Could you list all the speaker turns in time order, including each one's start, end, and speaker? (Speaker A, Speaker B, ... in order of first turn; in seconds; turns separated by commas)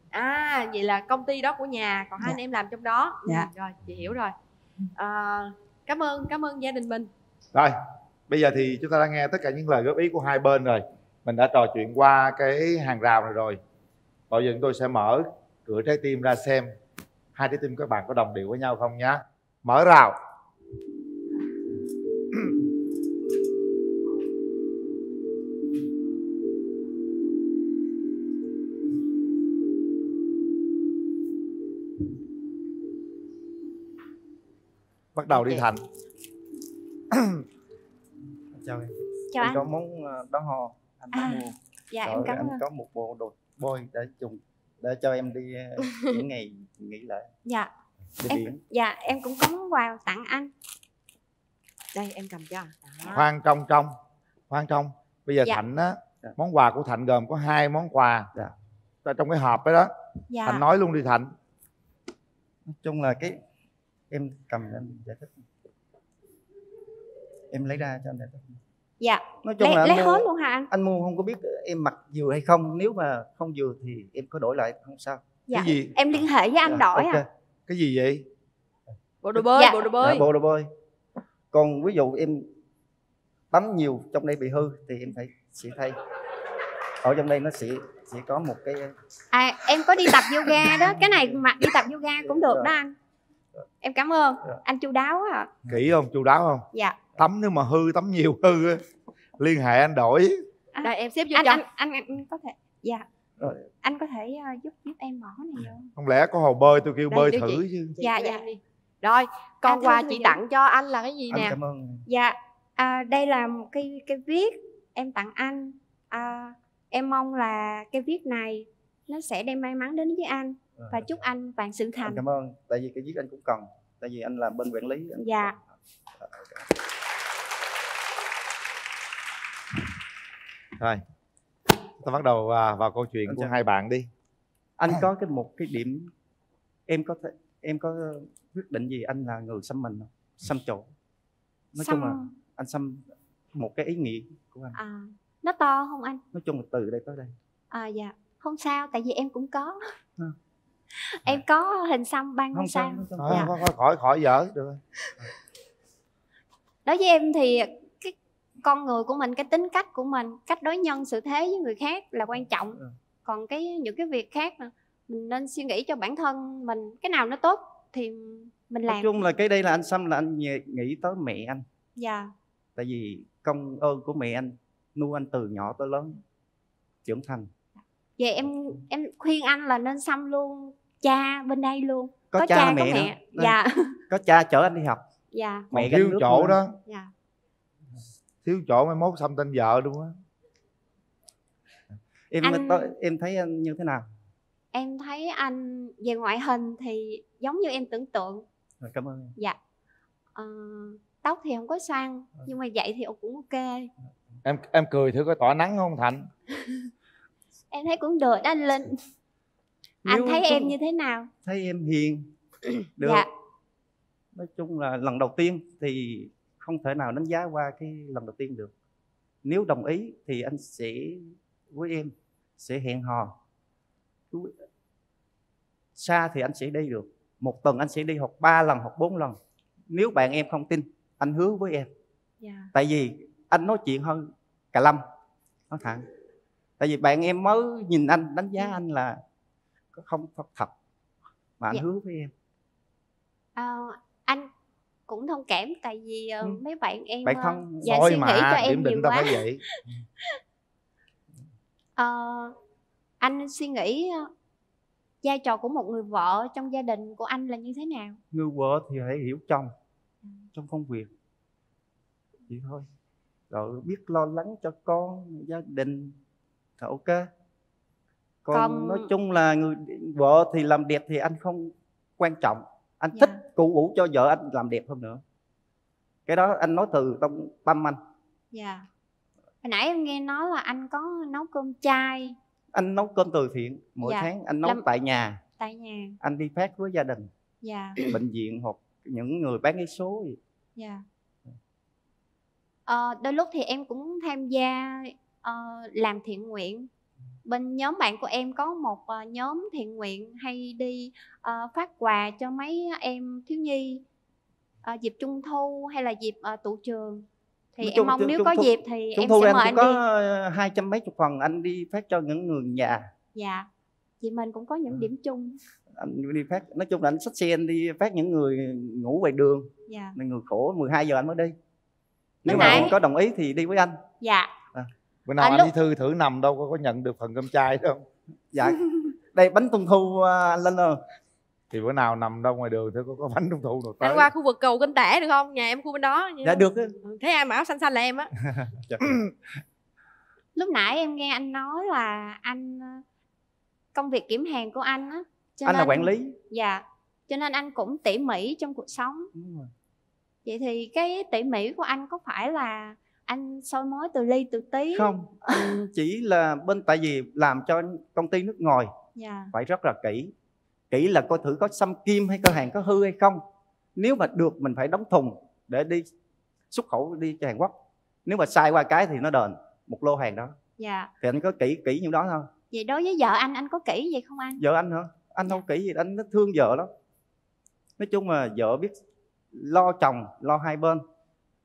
Speaker A: 0.1-4.3, Speaker A: 5.0-7.1, Speaker B: 8.3-13.6, Speaker B: 14.3-16.7, Speaker B: 17.3-20.2, Speaker B: 35.1-35.8, Speaker A: 35.3-35.6, Speaker C: 38.5-47.3, Speaker D: 39.3-39.6, Speaker D: 41.1-42.6, Speaker D: 47.4-47.7, Speaker C: 48.2-48.6, Speaker D: 48.3-50.5, Speaker A: 51.9-53.2, Speaker B: 53.0-54.0, Speaker B: 54.5-58.3, Speaker B: 59.0-59.9, Speaker D: 60.3-60.6, Speaker B: 60.5-61.3, Speaker C: 62.7-63.4, Speaker C: 64.1-65.4, Speaker C: 67.5-68.5, Speaker D: 69.0-70.7, Speaker C: 69.4-75.4, Speaker D: 75.5-77.2, Speaker B: 75.5-75.9, Speaker C: 76.6-77.3, Speaker B: 77.7-78.2, Speaker A: 79.2-80.2, Speaker D: 79.4-79.9, Speaker C: 80.0-80.7, Speaker C: 81.5-82.5, Speaker C: 83.5-86.0, Speaker C: 87.0-88.9, Speaker D: 89.3-93.0, Speaker C: 92.2-92.7, Speaker D: 93.8-95.5, Speaker B: 95.7-96.6, Speaker D: 96.7-97.0, Speaker B: 97.2-98.8, Speaker B: 99.4-100.4, Speaker D: 100.7-103.0, Speaker A: 100.8-101.6, Speaker C: 103.4-103.7, Speaker D: 103.8-105.9, Speaker B: 106.0-108.0, Speaker A: 107.1-111.5, Speaker D: 108.0-108.4, Speaker D: 109.6-110.4, Speaker C: 111.3-112.0, Speaker D: 112.0-122.2, Speaker C: 120.8-121.1, Speaker C: 122.0-125.5, Speaker D: 125.2-125.5, Speaker C: 126.2-126.7, Speaker B: 132.0-134.1, Speaker C: 133.2-133.5, Speaker C: 134.8-136.1, Speaker C: 136.9-140.9, Speaker C: 141.7-144.8, Speaker D: 141.8-142.3, Speaker D: 144.8-146.2, Speaker C: 146.3-147.3, Speaker D: 147.7-149.8, Speaker D: 151.0-153.5, Speaker C: 152.5-153.6, Speaker B: 153.2-154.8, Speaker D: 156.8-169.1, Speaker C: 168.8-171.6, Speaker D: 171.9-172.3, Speaker C: 172.8-176.2, Speaker C: 177.0-177.5, Speaker D: 178.2-184.0, Speaker C: 182.3-183.6, Speaker C: 184.1-185.0, Speaker D: 185.3-185.7, Speaker C: 185.7-186.6, Speaker B: 185.7-186.8, Speaker B: 188.4-190.2, Speaker C: 192.3-194.0, Speaker D: 192.4-192.9, Speaker D: 194.7-198.4, Speaker C: 198.8-199.3, Speaker D: 200.3-203.9, Speaker B: 204.4-206.3, Speaker D: 207.7-209.0, Speaker C: 210.0-210.8, Speaker D: 210.1-211.3, Speaker C: 211.4-212.3, Speaker C: 213.0-213.3, Speaker C: 214.3-218.7, Speaker C: 219.4-223.3, Speaker C: 225.9-229.4, Speaker C: 229.9-231.9, Speaker D: 232.4-232.7, Speaker C: 232.7-235.0, Speaker C: 235.7-236.0, Speaker C: 236.8-239.2, Speaker C: 239.9-240.7, Speaker C: 241.6-242.3, Speaker D: 243.6-244.5, Speaker D: 245.1-249.4, Speaker C: 247.2-248.0, Speaker B: 247.8-249.6, Speaker D: 252.0-252.5, Speaker D: 253.2-254.3, Speaker D: 255.2-258.2, Speaker C: 258.3-259.7, Speaker C: 260.5-261.1, Speaker C: 262.5-262.9, Speaker C: 263.5-266.1, Speaker C: 266.8-267.3, Speaker C: 268.4-275.2, Speaker D: 268.5-269.1, Speaker D: 273.1-273.4, Speaker C: 276.3-278.0, Speaker D: 278.5-278.9, Speaker D: 279.6-282.4, Speaker C: 282.7-285.4, Speaker D: 284.0-284.8, Speaker D: 285.6-286.2, Speaker C: 286.2-287.3, Speaker D: 287.6-288.0, Speaker C: 288.0-290.4, Speaker D: 290.8-291.0, Speaker D: 292.9-296.9, Speaker D: 297.4-304.0, Speaker D: 304.8-307.2, Speaker D: 307.8-310.0, Speaker C: 307.8-313.1, Speaker D: 313.3-313.7, Speaker D: 314.2-315.6, Speaker C: 316.0-321.5, Speaker D: 319.9-320.1, Speaker C: 322.4-324.0, Speaker D: 322.4-322.9, Speaker D: 324.2-324.5, Speaker B: 325.3-328.0, Speaker D: 325.4-325.7, Speaker C: 328.5-331.0, Speaker B: 331.7-334.3, Speaker A: 334.0-338.3, Speaker C: 336.4-336.9, Speaker C: 338.6-339.2, Speaker D: 340.6-343.0, Speaker D: 343.9-349.3, Speaker C: 345.6-346.4, Speaker C: 349.3-349.7, Speaker D: 350.4-355.1, Speaker C: 354.9-358.9, Speaker D: 359.1-359.5, Speaker C: 359.5-360.3, Speaker C: 360.9-363.4, Speaker C: 364.0-366.1, Speaker C: 366.7-367.7, Speaker C: 368.2-370.6, Speaker D: 370.8-371.1, Speaker C: 371.2-372.5, Speaker D: 372.7-374.6, Speaker C: 374.6-376.9, Speaker C: 378.0-378.9, Speaker C: 379.5-381.0